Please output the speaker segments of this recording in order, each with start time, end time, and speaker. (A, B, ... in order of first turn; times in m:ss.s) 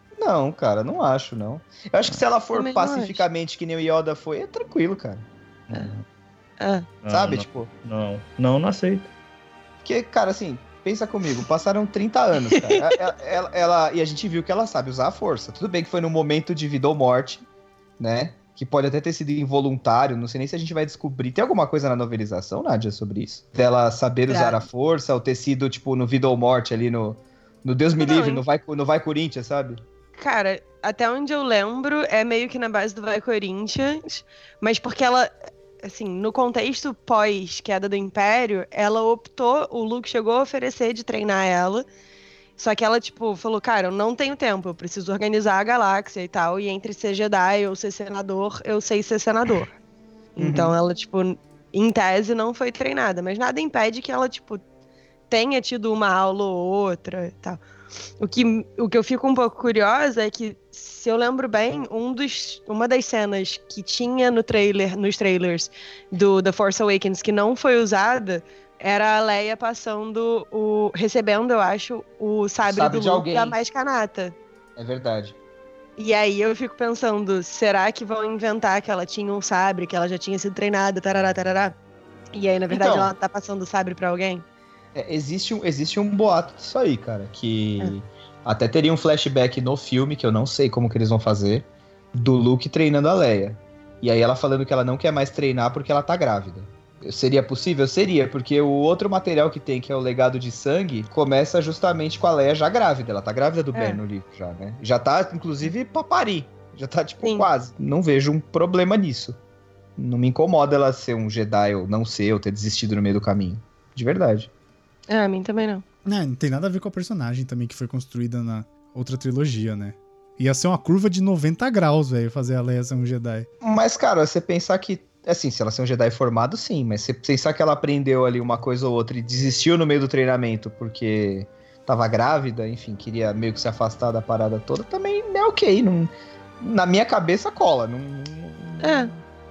0:00.2-0:05.2 A
0:02.6-0:03.2 B
0:05.7-0:06.0 C
0:06.6-0:06.9 B
0:07.0-0:09.1 C
0:07.1-0:07.7 A
0:09.8-0:17.4 A
0:12.6-0:13.0 B
0:18.0-0:29.8 A
0:24.3-0:24.6 B
0:28.0-0:28.4 B
0:30.2-0:35.3 B
0:35.8-0:41.9 B
0:42.6-0:49.7 B
0:50.4-0:54.6 B
0:50.4-0:50.8 A
0:55.3-0:57.6 B
0:58.2-1:14.4 B
1:12.6-1:13.6 A
1:14.8-1:15.4 A
1:16.0-1:21.7 B
1:22.3-1:24.4 B
1:22.7-1:23.1 A
1:25.0-1:49.4 A
1:43.7-1:44.0 B
1:47.2-1:47.5 B
1:50.0-1:54.5 A
1:55.1-1:55.8 B
1:56.1-2:03.5 D
2:03.6-2:19.2 A
2:18.8-2:19.1 B